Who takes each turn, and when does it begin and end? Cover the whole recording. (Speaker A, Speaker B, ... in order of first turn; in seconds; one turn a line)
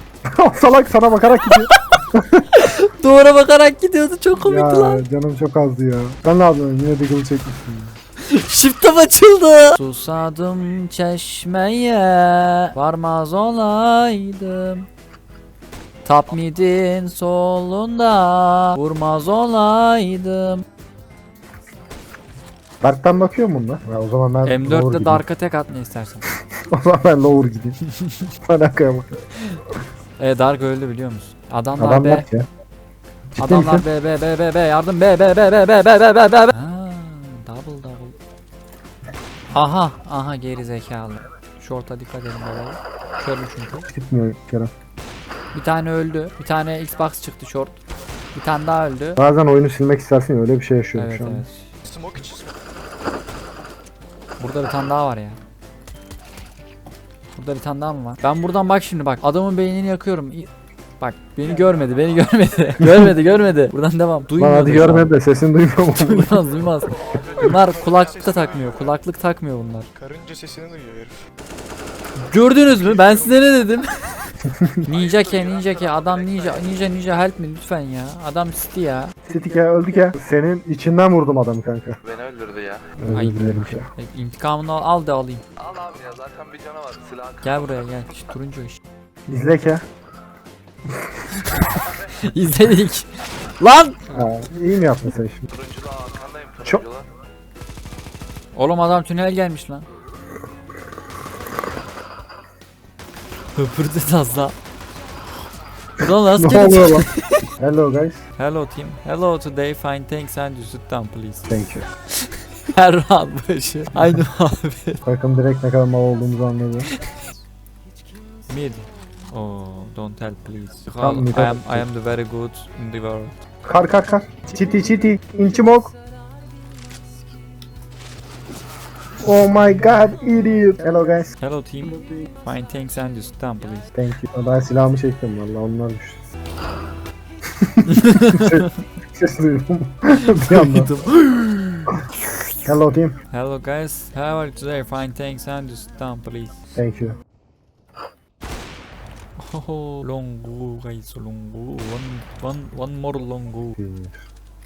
Speaker A: 0.3-2.5
Speaker B: 1.5-2.0
Speaker B: 2.5-5.0
Speaker A: 4.4-8.0
Speaker B: 8.2-14.9
Speaker B: 16.1-20.6
Speaker A: 22.8-25.2
Speaker B: 24.4-26.3
Speaker A: 26.7-27.8
Speaker A: 28.4-29.2
Speaker B: 30.2-32.2
Speaker A: 31.8-32.5
Speaker A: 33.3-33.9
Speaker B: 33.4-38.2
Speaker B: 39.5-43.9
Speaker A: 43.9-44.7
Speaker B: 45.5-47.8
Speaker B: 48.3-49.2
Speaker A: 49.2-51.5
Speaker B: 51.0-51.8
Speaker C: 51.9-52.5
Speaker B: 54.4-55.4
Speaker B: 57.4-60.5
Speaker B: 61.0-65.1
Speaker A: 62.8-63.1
Speaker A: 64.4-66.4
Speaker B: 66.0-69.9
Speaker C: 67.1-68.9
Speaker C: 70.0-71.2
Speaker B: 72.3-74.3
Speaker C: 72.8-73.3
Speaker A: 74.5-74.8
Speaker B: 74.8-79.1
Speaker A: 79.3-82.0
Speaker A: 83.0-83.9
Speaker B: 83.1-85.4
Speaker D: 85.8-87.2
Speaker B: 87.4-88.8
Speaker A: 89.3-89.8
Speaker B: 91.3-94.0
Speaker A: 94.1-95.5
Speaker D: 95.9-96.5
Speaker A: 96.6-96.9
Speaker B: 98.5-99.9
Speaker B: 103.6-104.5
Speaker B: 106.0-107.5
Speaker A: 106.3-107.1
Speaker A: 107.6-108.2
Speaker B: 108.4-111.5
Speaker A: 111.5-111.8
Speaker B: 112.2-115.0
Speaker A: 115.0-116.9
Speaker B: 118.5-123.3
Speaker A: 121.0-121.9
Speaker A: 123.6-125.9
Speaker A: 129.2-131.3
Speaker B: 131.4-133.9
Speaker A: 133.9-136.2
Speaker A: 137.6-140.9
Speaker B: 137.9-138.7
Speaker B: 140.3-142.5
Speaker A: 142.7-143.2
Speaker B: 143.3-146.6
Speaker A: 146.8-147.2
Speaker B: 149.4-153.8
Speaker A: 153.8-154.3